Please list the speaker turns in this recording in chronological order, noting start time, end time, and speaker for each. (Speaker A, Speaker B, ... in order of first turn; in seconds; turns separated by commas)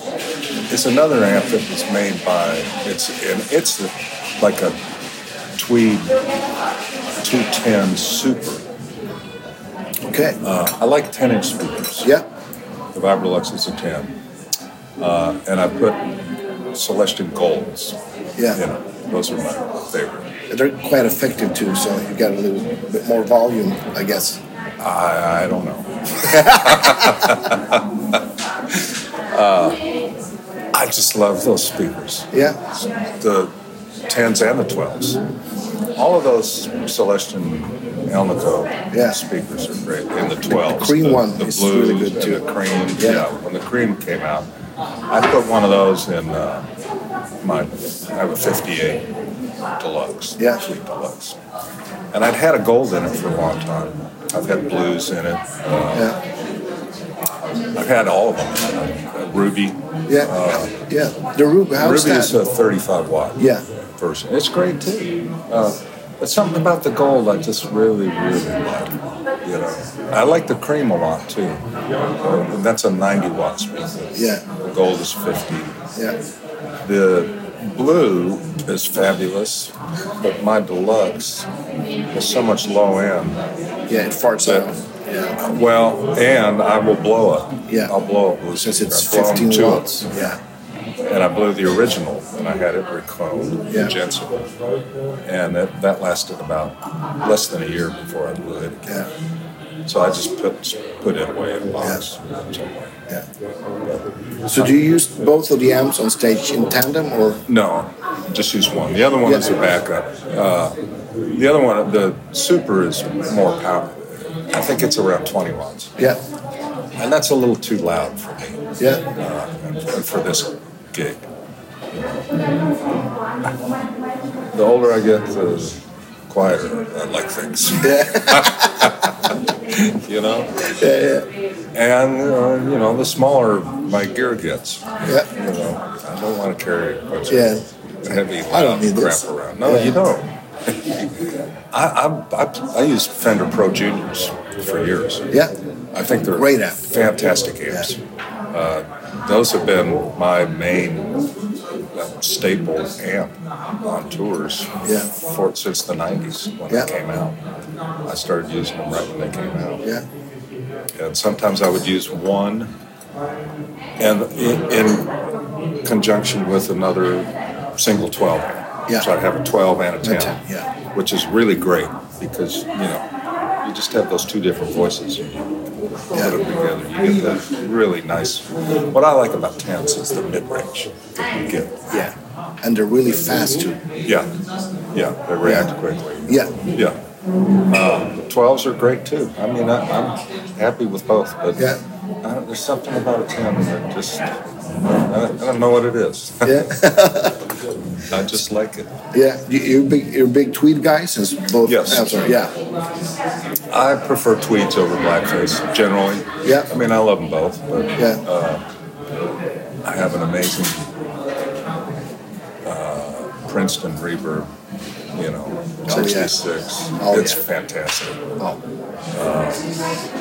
Speaker A: 0.7-4.8, Speaker A: 5.6-6.2, Speaker A: 7.2-8.7, Speaker B: 10.1-10.4, Speaker A: 10.4-12.2, Speaker A: 12.9-14.2, Speaker A: 15.0-16.1, Speaker A: 16.7-18.0, Speaker A: 18.5-20.3, Speaker B: 20.5-24.4, Speaker A: 24.8-28.2, Speaker B: 26.3-27.2, Speaker A: 28.7-29.8, Speaker A: 30.7-33.5, Speaker B: 32.3-32.6, Speaker A: 34.1-35.2, Speaker A: 36.0-44.5, Speaker B: 38.9-39.2, Speaker B: 40.3-42.4, Speaker B: 43.0-43.2, Speaker A: 45.1-46.7, Speaker A: 47.4-49.1, Speaker A: 49.8-51.4, Speaker A: 52.1-56.2, Speaker A: 57.8-60.9, Speaker B: 60.9-62.4, Speaker A: 61.8-71.6, Speaker B: 63.4-63.6, Speaker A: 72.2-75.8, Speaker B: 74.2-74.4, Speaker A: 76.8-81.5, Speaker A: 82.1-83.5, Speaker B: 83.9-85.4, Speaker A: 85.4-90.1, Speaker B: 88.6-90.4, Speaker A: 91.0-94.5, Speaker A: 95.2-99.1, Speaker A: 99.9-103.0, Speaker B: 104.5-107.4, Speaker A: 107.5-116.0, Speaker A: 117.0-121.2, Speaker B: 118.8-119.0, Speaker A: 124.5-130.8, Speaker B: 127.8-128.9, Speaker B: 130.6-131.3, Speaker A: 131.7-145.3, Speaker B: 137.3-137.6, Speaker B: 138.5-140.0, Speaker A: 145.9-148.0, Speaker B: 146.3-146.8, Speaker A: 148.5-151.2, Speaker A: 151.9-157.4, Speaker B: 154.8-155.1, Speaker A: 158.1-159.8, Speaker A: 161.0-162.7, Speaker A: 164.0-165.1, Speaker A: 165.8-170.4, Speaker B: 170.0-170.7, Speaker A: 170.9-173.1, Speaker A: 173.6-175.6, Speaker A: 176.1-181.9, Speaker B: 181.9-183.8, Speaker A: 184.0-184.3, Speaker A: 184.9-187.0, Speaker B: 185.4-185.7, Speaker B: 186.3-186.5, Speaker A: 187.7-194.3, Speaker A: 194.9-196.8, Speaker B: 196.4-197.4, Speaker A: 198.1-198.9, Speaker B: 199.1-202.5, Speaker A: 201.6-202.4, Speaker A: 203.7-208.6, Speaker B: 208.0-208.2, Speaker A: 209.8-210.9, Speaker A: 212.6-214.5, Speaker A: 215.1-218.3, Speaker B: 215.9-216.3, Speaker B: 217.0-217.4, Speaker A: 219.1-219.7